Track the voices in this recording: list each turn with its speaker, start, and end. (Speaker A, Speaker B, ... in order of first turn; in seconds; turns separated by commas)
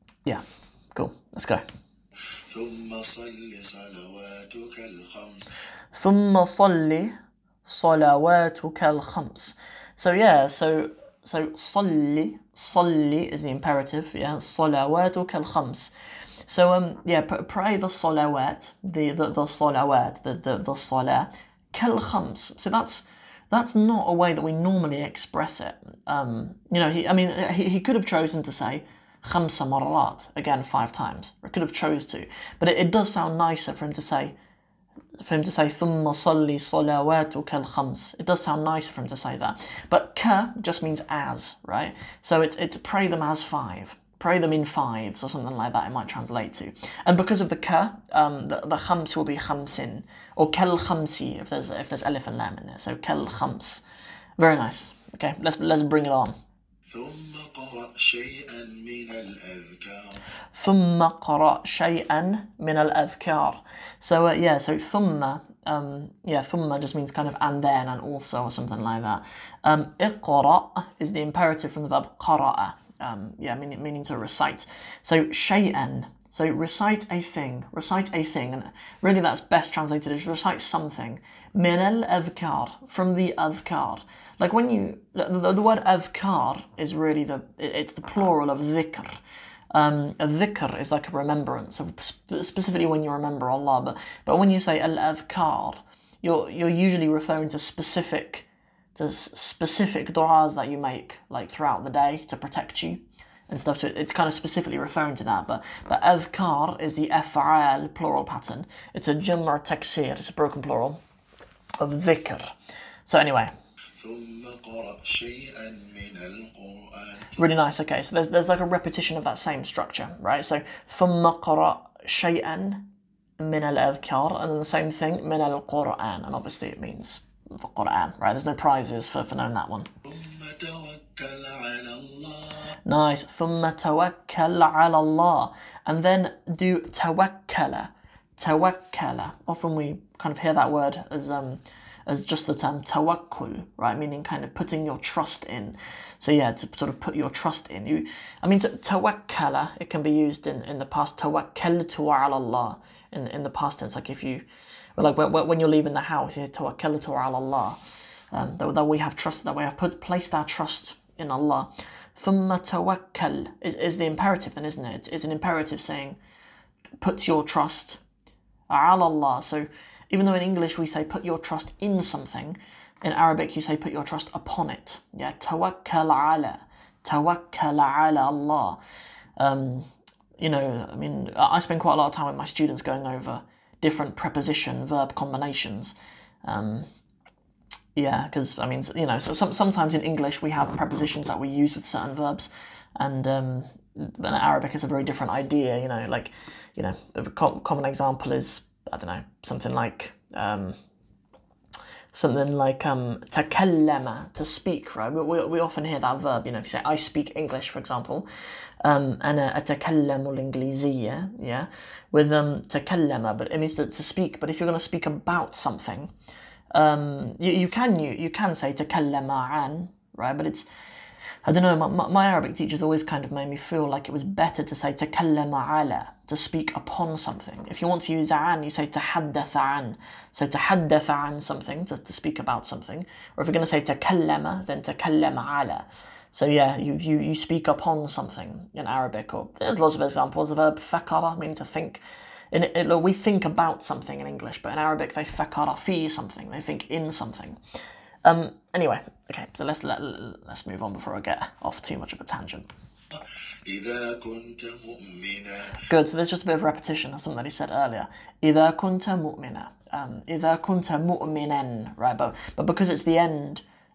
Speaker A: 0.9-1.6, Speaker B: 2.3-5.5, Speaker A: 5.9-7.1, Speaker A: 7.6-15.9, Speaker A: 16.4-34.3, Speaker A: 35.2-53.8, Speaker A: 54.4-56.3, Speaker B: 56.9-60.2, Speaker A: 60.5-89.2, Speaker A: 89.7-111.0, Speaker A: 111.8-112.5, Speaker A: 113.0-113.5, Speaker B: 114.0-117.4, Speaker A: 117.3-122.8, Speaker A: 123.4-129.9, Speaker B: 130.0-132.8, Speaker A: 132.8-154.4, Speaker A: 155.0-157.8, Speaker A: 158.3-166.2, Speaker A: 167.0-168.0, Speaker A: 168.7-178.8, Speaker A: 179.4-186.9, Speaker A: 187.9-200.8, Speaker A: 202.1-208.3, Speaker A: 208.8-216.1, Speaker A: 216.7-220.7, Speaker A: 221.4-242.0, Speaker A: 242.5-247.6, Speaker A: 248.2-252.7, Speaker B: 253.1-255.8, Speaker A: 255.8-263.6